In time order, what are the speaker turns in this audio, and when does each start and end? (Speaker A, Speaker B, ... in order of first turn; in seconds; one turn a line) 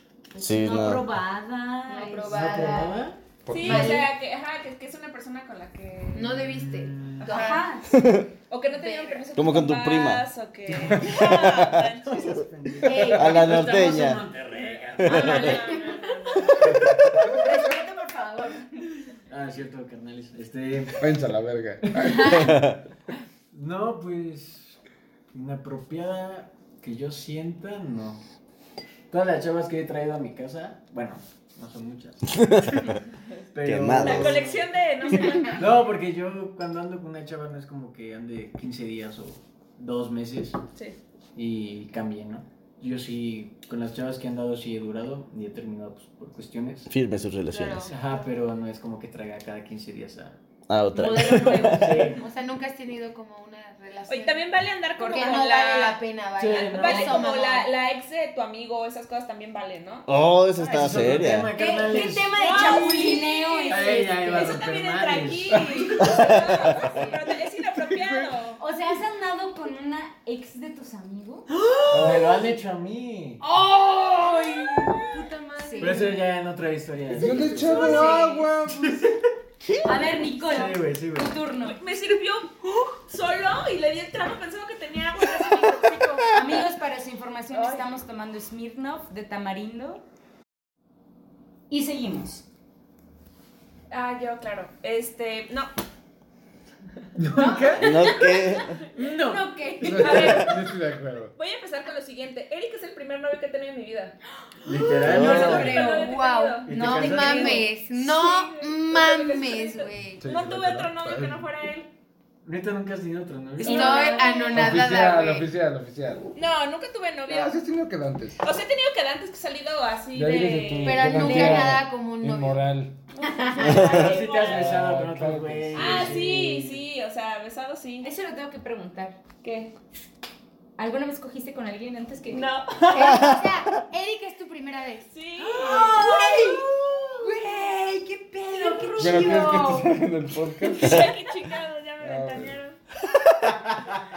Speaker A: 0.3-2.7
Speaker B: 0.4-1.0
Speaker C: 1.9-3.1
Speaker D: 2.2-3.2
Speaker E: 3.4-4.0
Speaker F: 3.5-6.4
Speaker C: 3.6-4.1
Speaker A: 3.6-4.0
Speaker C: 6.1-7.5
Speaker D: 6.2-7.3
Speaker F: 7.2-7.7
Speaker A: 7.2-8.0
Speaker B: 7.9-8.3
Speaker F: 8.5-12.4
Speaker A: 8.7-9.2
Speaker B: 9.3-10.2
Speaker E: 10.9-11.3
Speaker B: 11.0-11.9
Speaker D: 12.2-15.8
Speaker A: 12.8-14.1
Speaker E: 12.9-13.3
Speaker B: 13.0-14.3
Speaker F: 14.5-16.7
Speaker B: 15.0-15.6
Speaker A: 15.1-15.8
Speaker E: 17.1-17.8
Speaker A: 17.2-18.9
Speaker D: 19.3-21.0
Speaker E: 21.0-22.6
Speaker D: 21.9-22.2
Speaker B: 22.3-22.8
Speaker D: 23.5-24.8
Speaker D: 25.3-28.2
Speaker D: 29.1-32.9
Speaker B: 32.3-33.0
Speaker D: 33.5-34.7
Speaker B: 33.6-34.4
Speaker F: 34.0-35.8
Speaker A: 35.1-35.6
Speaker D: 35.5-40.6
Speaker D: 41.4-46.9
Speaker B: 46.9-47.9
Speaker C: 47.5-48.2
Speaker D: 47.8-50.4
Speaker B: 50.7-52.0
Speaker A: 50.9-52.1
Speaker D: 51.7-52.2
Speaker C: 52.1-57.7
Speaker F: 54.1-60.1
Speaker A: 55.0-55.5
Speaker D: 56.4-57.3
Speaker B: 60.1-61.5
Speaker D: 60.6-62.9
Speaker A: 61.5-64.7
Speaker F: 62.3-68.6
Speaker C: 62.5-63.7
Speaker D: 63.7-65.7
Speaker A: 65.5-67.2
Speaker B: 66.1-66.8
Speaker E: 67.8-68.3
Speaker A: 68.6-71.5
Speaker D: 71.5-73.4
Speaker E: 71.9-72.4
Speaker C: 73.4-76.2
Speaker F: 74.7-75.2
Speaker A: 75.6-76.1
Speaker D: 75.8-79.3
Speaker E: 77.1-79.2
Speaker A: 77.5-78.5
Speaker B: 79.7-79.9
Speaker A: 79.8-81.8
Speaker D: 80.4-81.4
Speaker F: 81.6-86.3
Speaker A: 86.2-90.0
Speaker F: 87.5-87.8
Speaker A: 91.7-92.4
Speaker F: 93.9-95.7
Speaker D: 97.2-98.0
Speaker A: 97.3-100.5
Speaker B: 97.8-98.8
Speaker D: 99.0-99.5
Speaker E: 99.8-101.3
Speaker F: 99.9-100.7
Speaker F: 101.3-104.2
Speaker D: 104.6-105.9
Speaker A: 104.6-106.2
Speaker B: 105.0-105.7
Speaker F: 105.2-111.9
Speaker C: 105.4-110.2
Speaker D: 106.6-107.7
Speaker A: 106.8-107.7
Speaker E: 110.2-111.5
Speaker D: 112.4-114.2
Speaker A: 113.6-114.7
Speaker C: 113.6-115.5
Speaker E: 114.5-116.3
Speaker F: 116.3-117.6
Speaker E: 117.2-118.5
Speaker F: 118.4-121.2
Speaker E: 120.1-123.0
Speaker C: 120.8-122.6
Speaker A: 121.1-121.6
Speaker F: 123.1-124.7
Speaker C: 123.2-124.2
Speaker B: 123.6-124.1
Speaker D: 123.8-126.7
Speaker E: 124.5-126.6
Speaker F: 125.7-128.1
Speaker A: 128.0-129.2
Speaker F: 129.4-129.7
Speaker A: 130.8-132.5
Speaker F: 132.3-133.2
Speaker C: 132.9-136.6
Speaker B: 133.1-133.5
Speaker F: 135.1-137.1
Speaker A: 135.5-136.6
Speaker D: 135.7-136.6
Speaker C: 137.2-139.9
Speaker A: 138.5-139.8
Speaker E: 139.0-141.1
Speaker F: 140.7-142.8
Speaker E: 142.0-142.6
Speaker B: 143.1-144.0